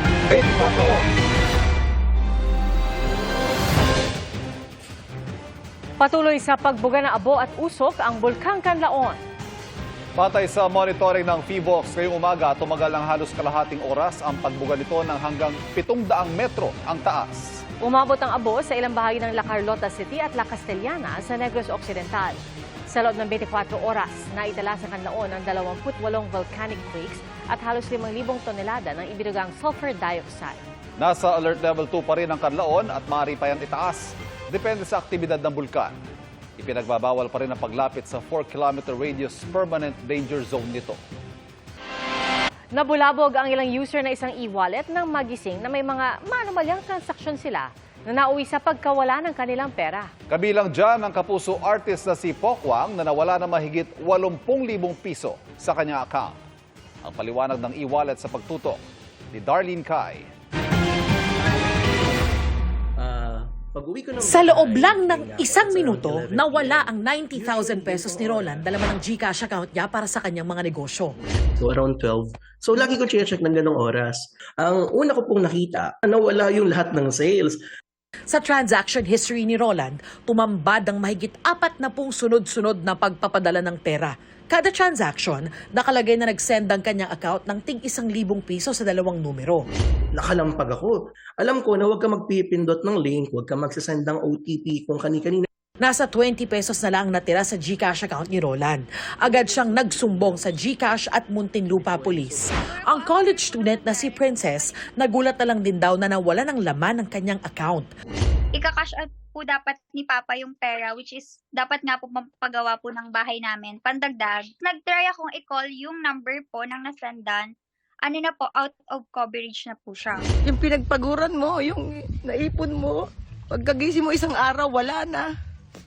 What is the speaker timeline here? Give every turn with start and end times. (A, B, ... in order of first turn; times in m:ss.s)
0:00.3-0:01.0 A
0:00.7-0:01.0 B
0:06.0-0:09.2 B
0:10.2-0:17.6 A
0:17.8-0:30.6 B
0:31.0-0:35.9 A
0:36.6-0:41.0 A
0:42.7-0:50.1 B
0:50.3-0:56.4 A
0:57.0-0:58.8 A
0:59.3-1:00.3 A
1:01.4-1:02.2 C
1:03.0-1:08.6 C
1:04.2-1:11.2 D
1:11.6-1:17.6 C
1:18.3-1:29.6 D
1:30.2-1:35.4 C
1:35.8-1:47.9 D
1:42.9-1:44.7 E
1:48.6-1:57.5 E
1:58.0-2:00.3 E
2:00.5-2:03.0 F
2:03.5-2:05.2 F